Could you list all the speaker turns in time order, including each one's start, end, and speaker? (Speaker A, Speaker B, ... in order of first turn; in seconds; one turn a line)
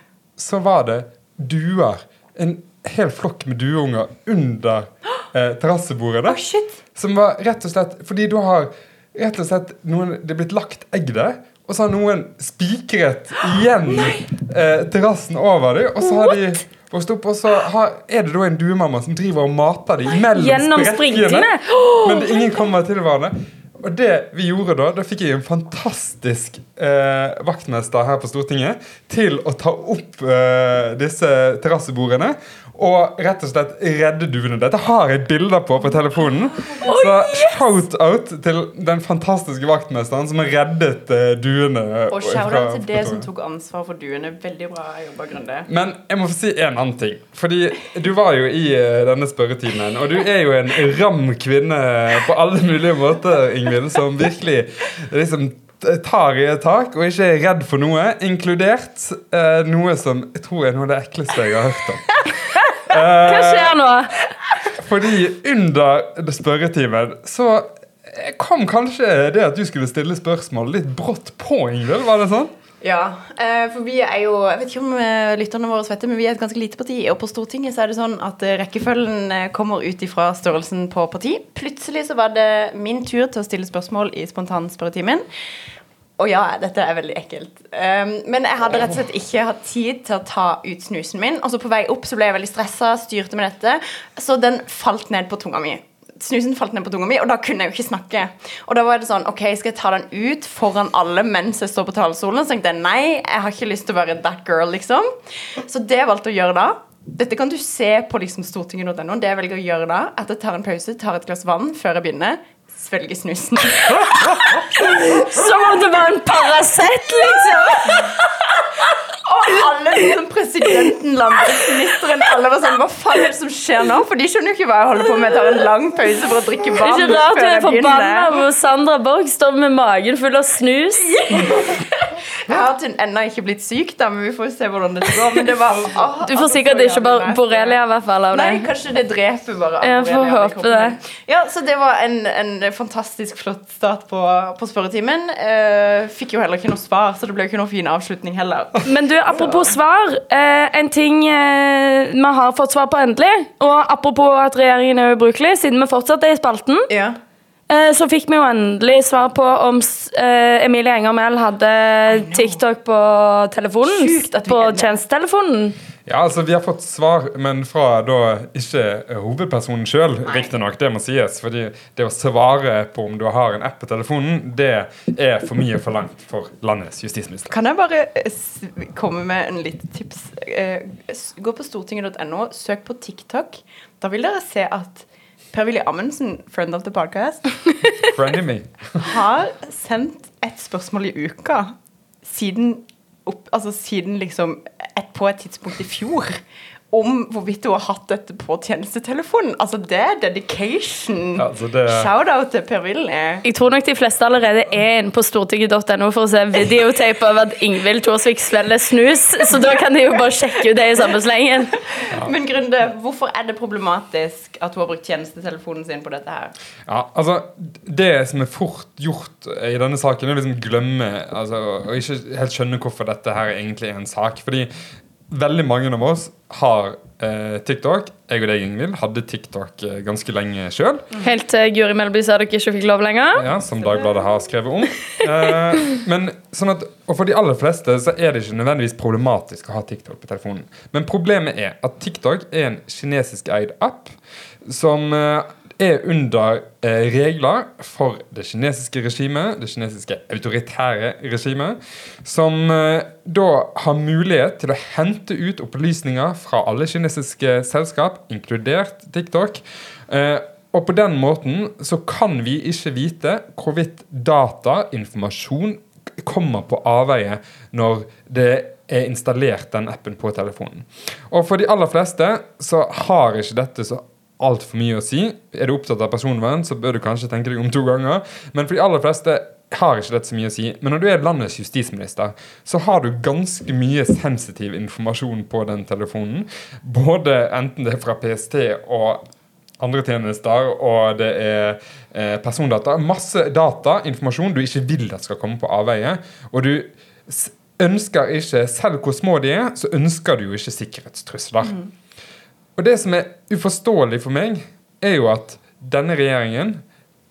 Speaker A: 0.4-6.4
Speaker B: 6.3-6.8
Speaker A: 7.0-43.3
Speaker C: 20.3-22.5
Speaker C: 36.8-37.8
Speaker B: 42.1-45.7
Speaker A: 45.7-62.2
Speaker A: 62.9-63.8
Speaker C: 63.2-64.2
Speaker A: 64.7-72.5
Speaker B: 72.8-85.2
Speaker B: 86.2-115.4
Speaker C: 114.8-118.1
Speaker B: 117.2-118.2
Speaker B: 119.0-128.3
Speaker C: 126.8-131.6
Speaker B: 131.0-137.8
Speaker C: 136.2-138.7
Speaker B: 138.3-149.8
Speaker C: 139.8-140.9
Speaker C: 148.8-156.9
Speaker B: 156.9-157.2
Speaker C: 157.7-165.8
Speaker B: 162.1-162.6
Speaker B: 163.8-164.9
Speaker A: 166.1-177.5
Speaker B: 170.3-170.6
Speaker B: 177.5-187.6
Speaker A: 188.1-189.1
Speaker B: 189.0-196.4
Speaker B: 196.9-203.4
Speaker A: 201.4-202.1
Speaker C: 203.4-211.7
Speaker B: 212.0-216.5
Speaker A: 216.9-224.7
Speaker A: 225.3-231.1
Speaker C: 231.2-233.5
Speaker A: 233.3-244.2
Speaker A: 244.7-289.2
Speaker A: 289.8-301.8
Speaker A: 302.8-306.8